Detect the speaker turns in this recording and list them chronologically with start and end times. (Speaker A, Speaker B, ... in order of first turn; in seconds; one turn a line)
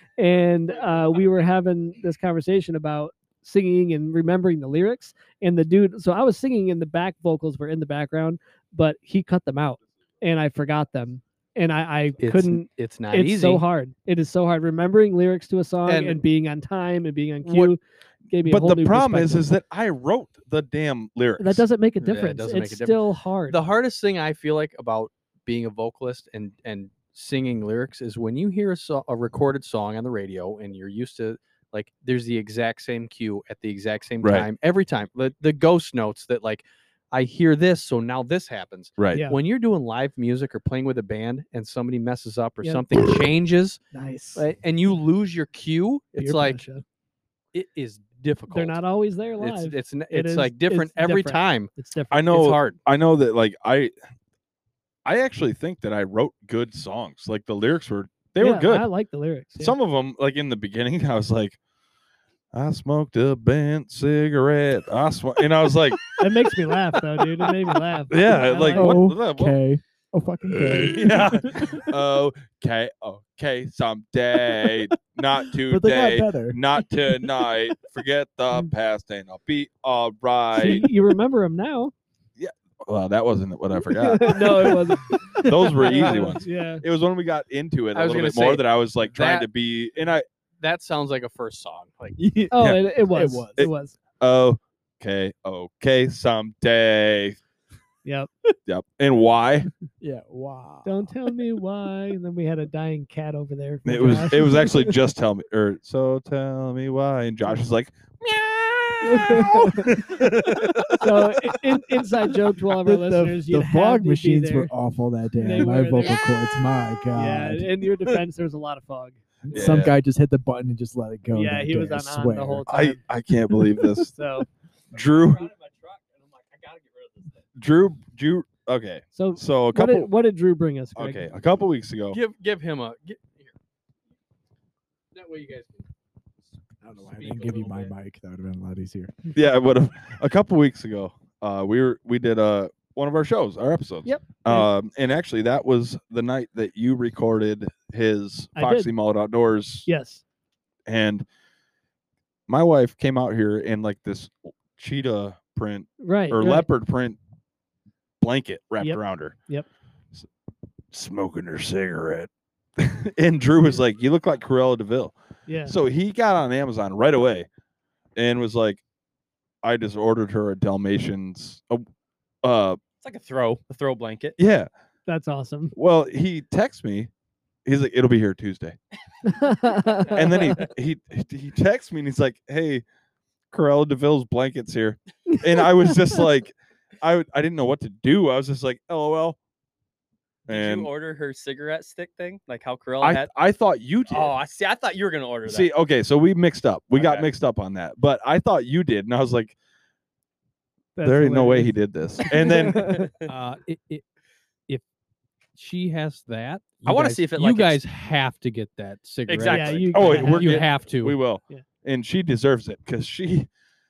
Speaker A: 0.2-19.5
Speaker B: 0.7-1.5
Speaker C: 12.2-13.6
Speaker C: 15.8-16.2
Speaker C: 17.4-17.7
Speaker D: 18.4-21.6
Speaker A: 21.4-23.6
Speaker C: 22.0-43.8
Speaker D: 34.2-34.5
Speaker D: 39.0-39.2
Speaker A: 43.9-44.4
Speaker C: 44.4-46.6
Speaker A: 46.2-46.8
Speaker C: 47.5-48.8
Speaker A: 48.5-52.4
Speaker C: 49.4-51.7
Speaker D: 52.1-53.9
Speaker C: 52.3-52.8
Speaker D: 55.0-58.9
Speaker A: 58.4-59.8
Speaker D: 59.6-61.6
Speaker D: 62.5-66.1
Speaker A: 66.2-69.2
Speaker D: 68.1-69.6
Speaker E: 68.7-71.8
Speaker D: 70.7-80.9
Speaker E: 75.5-76.6
Speaker A: 80.5-81.9
Speaker D: 82.4-90.2
Speaker A: 83.8-86.8
Speaker C: 87.9-89.5
Speaker C: 90.6-92.5
Speaker E: 92.2-92.5
Speaker A: 92.5-94.0
Speaker D: 92.5-92.9
Speaker E: 93.0-93.7
Speaker D: 93.6-97.4
Speaker A: 98.0-98.3
Speaker D: 98.7-99.7
Speaker E: 100.0-101.1
Speaker A: 100.8-104.9
Speaker D: 103.8-111.5
Speaker A: 109.0-110.2
Speaker A: 111.0-114.7
Speaker E: 112.8-117.7
Speaker A: 115.4-116.3
Speaker A: 117.1-119.4
Speaker E: 119.4-122.7
Speaker D: 119.5-119.9
Speaker A: 121.3-123.0
Speaker D: 122.7-124.2
Speaker A: 124.1-124.5
Speaker D: 124.9-125.5
Speaker B: 124.9-127.5
Speaker D: 127.5-130.1
Speaker A: 129.1-131.2
Speaker D: 130.9-132.2
Speaker C: 132.1-133.5
Speaker C: 135.1-135.8
Speaker E: 136.8-139.1
Speaker B: 137.1-137.6
Speaker C: 137.3-137.9
Speaker D: 139.3-149.9
Speaker A: 144.0-144.7
Speaker A: 148.6-148.9
Speaker A: 149.8-150.2
Speaker D: 150.9-151.3
Speaker D: 152.5-157.2
Speaker A: 156.0-156.7
Speaker D: 158.2-159.3
Speaker A: 158.8-159.7
Speaker D: 160.9-167.5
Speaker A: 165.5-165.7
Speaker D: 168.2-168.8
Speaker D: 169.6-171.8
Speaker D: 172.4-172.8
Speaker B: 173.0-174.4
Speaker D: 174.4-174.7
Speaker A: 175.1-175.7
Speaker D: 175.7-177.1
Speaker D: 177.6-178.8
Speaker A: 179.2-180.6
Speaker B: 180.0-180.7
Speaker D: 180.1-182.8
Speaker D: 183.5-189.4
Speaker A: 185.3-186.2
Speaker B: 190.5-193.3
Speaker D: 190.5-190.9
Speaker D: 193.0-194.3
Speaker B: 194.1-195.7
Speaker D: 195.4-199.5
Speaker B: 196.9-197.3
Speaker A: 200.9-203.1
Speaker D: 201.0-203.0
Speaker B: 202.9-203.3
Speaker C: 203.3-204.0
Speaker C: 205.6-211.2
Speaker B: 206.8-207.8
Speaker B: 209.3-210.2
Speaker A: 209.4-210.7
Speaker D: 209.9-213.5